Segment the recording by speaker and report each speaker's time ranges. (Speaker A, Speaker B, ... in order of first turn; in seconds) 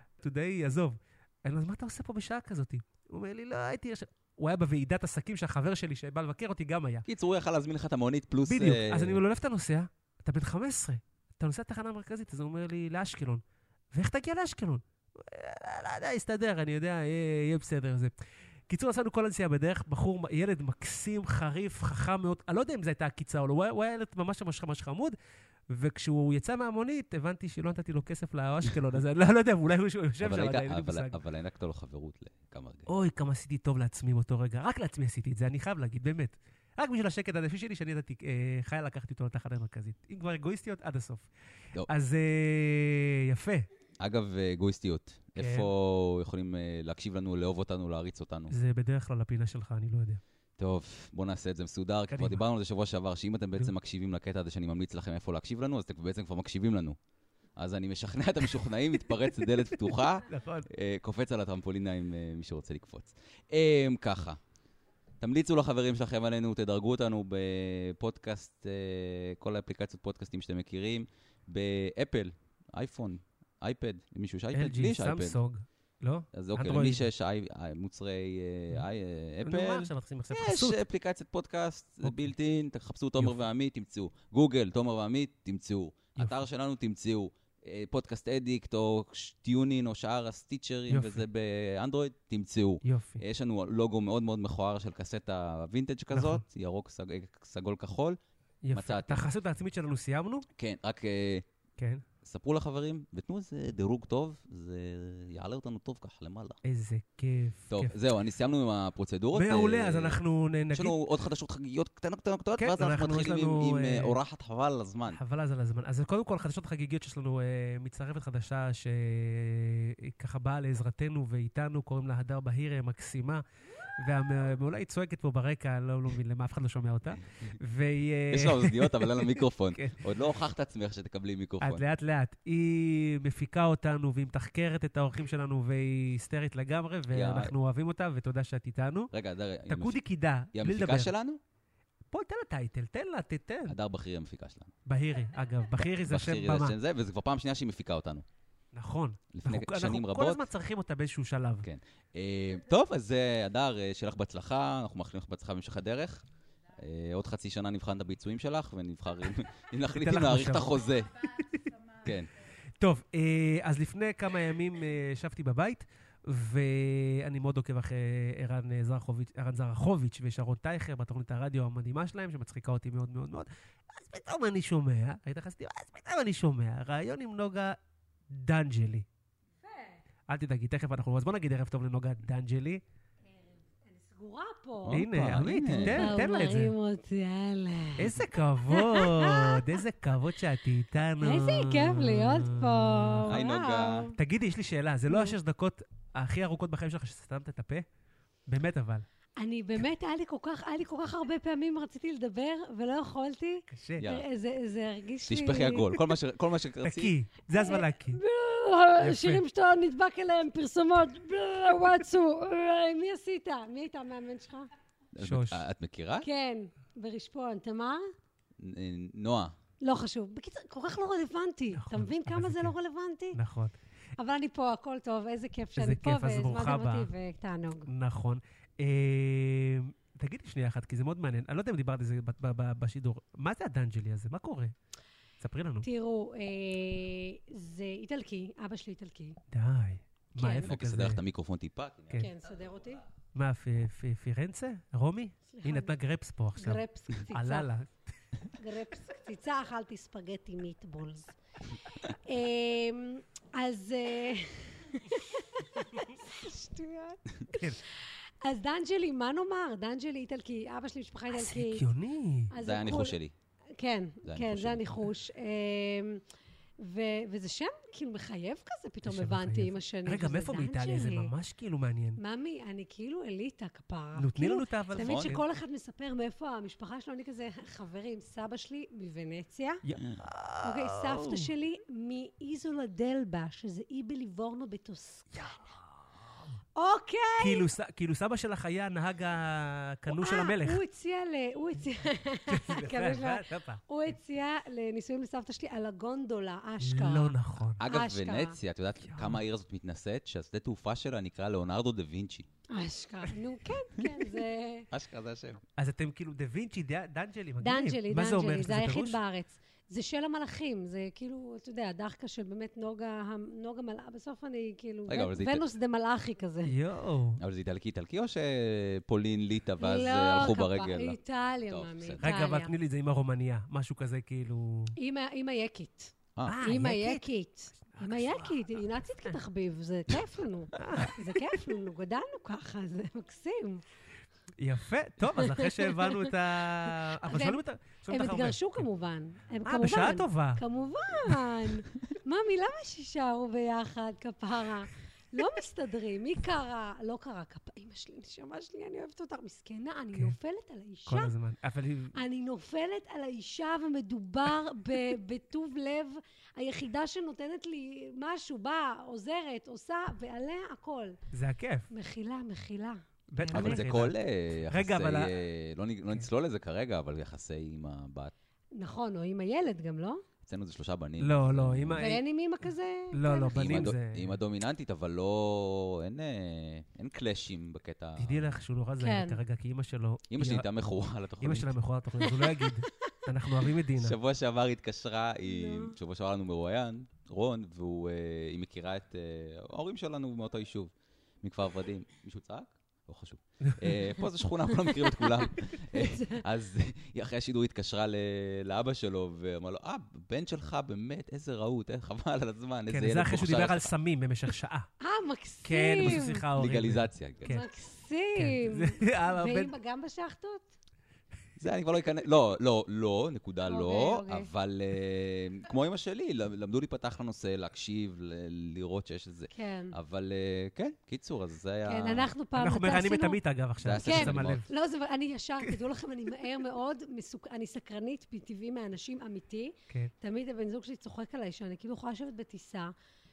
Speaker A: 0.2-7.0, 8.5-13.4, 13.9-18.1, 18.7-25.1, 25.7-31.1, 32.9-41.3, 41.9-43.7, 45.4-45.7, 48.5-50.2, 52.1-52.4, 60.3-60.7, 74.5-77.0, 79.4-80.8, 82.0-82.3, 90.9-91.2, 92.8-93.2, 96.1-96.4, 98.6-100.5, 101.8-102.0, 106.6-107.9, 109.3-111.0, 112.6-114.2, 115.1-123.4, 124.0-130.0, 131.6-139.1, 139.7-141.1, 142.1-143.8, 144.8-146.8, 148.7-151.7, 159.9-160.7, 161.4-161.7, 162.8-177.8, 178.3-179.1, 180.3-182.8, 184.9-186.7, 188.0-193.3, 194.2-197.8, 198.5-199.1, 203.7-204.0, 206.8-208.2, 209.0-209.4, 215.2-215.6, 221.8-222.7, 223.3-223.7, 225.8-227.1, 227.9-234.7, 235.4-235.9, 239.5-241.2, 243.3-247.9, 257.5-257.8, 261.3-262.5, 269.0-272.2, 274.2-275.4, 279.8-281.5, 287.4-290.8, 292.5-293.8, 296.8-297.8, 299.1-299.4, 305.8-309.2, 316.7-317.4, 322.2-324.9, 326.4-327.2, 327.9-328.6, 330.8-331.6, 334.6-338.9, 339.6-340.6, 341.2-341.5, 351.1-352.1, 361.3-361.9, 363.3-364.1, 364.7-365.4, 371.2-372.2, 373.1-374.4, 378.2-380.7, 381.4-384.1, 393.6-393.9, 402.9-404.9, 405.6-407.6, 408.4-409.7, 422.5-424.7
Speaker B: 7.1-9.2, 30.2-32.9, 44.0-48.5, 50.6-57.0, 57.5-64.4, 65.2-75.4, 76.3-98.2, 98.7-99.3, 100.6-101.5, 102.2-106.6, 107.7-110.2, 110.7-115.2, 128.3-131.8, 137.1-137.5, 139.1-140.0, 140.5-141.4, 143.7-144.7, 145.8-148.2, 149.3-150.4, 151.6-161.2, 162.0-162.3, 184.8-186.1, 193.3-194.1, 204.0-204.2, 205.3-207.1, 215.1-216.3, 218.6-219.5, 240.6-242.2, 262.6-263.3, 264.2-265.0, 274.9-275.4, 297.8-302.5, 304.9-305.6, 315.1-315.7, 317.4-322.2, 326.4-326.6, 363.5-368.3, 370.4-372.2, 373.5-378.6, 380.3-381.7, 384.0-403.9, 406.0-407.5, 411.6-422.3, 423.8-424.6
Speaker C: 179.6-180.0, 183.8-185.0, 185.7-189.8, 191.2-194.2, 195.1-195.3, 199.4-205.9, 207.5-214.7, 216.2-218.0, 219.8-223.4, 224.2-227.9, 235.8-239.4, 240.3-240.7, 242.2-243.0, 245.5-245.9, 246.6-247.7, 248.5-251.3, 251.9-261.9, 262.5-263.2, 263.8-266.2, 266.8-271.3, 272.2-279.8, 280.6-285.7, 286.8-287.7, 290.1-298.6, 302.7-304.9, 307.6-316.8, 319.8-322.7, 325.0-333.8, 335.4-351.3, 352.1-361.2, 361.9-363.8, 368.8-370.2, 372.0-373.9, 379.0-379.4, 382.2-383.2, 385.4-385.9, 394.8-396.4, 405.0-406.4, 407.5-410.7, 413.6-414.5, 419.5-419.9, 421.9-423.4, 424.0-432.9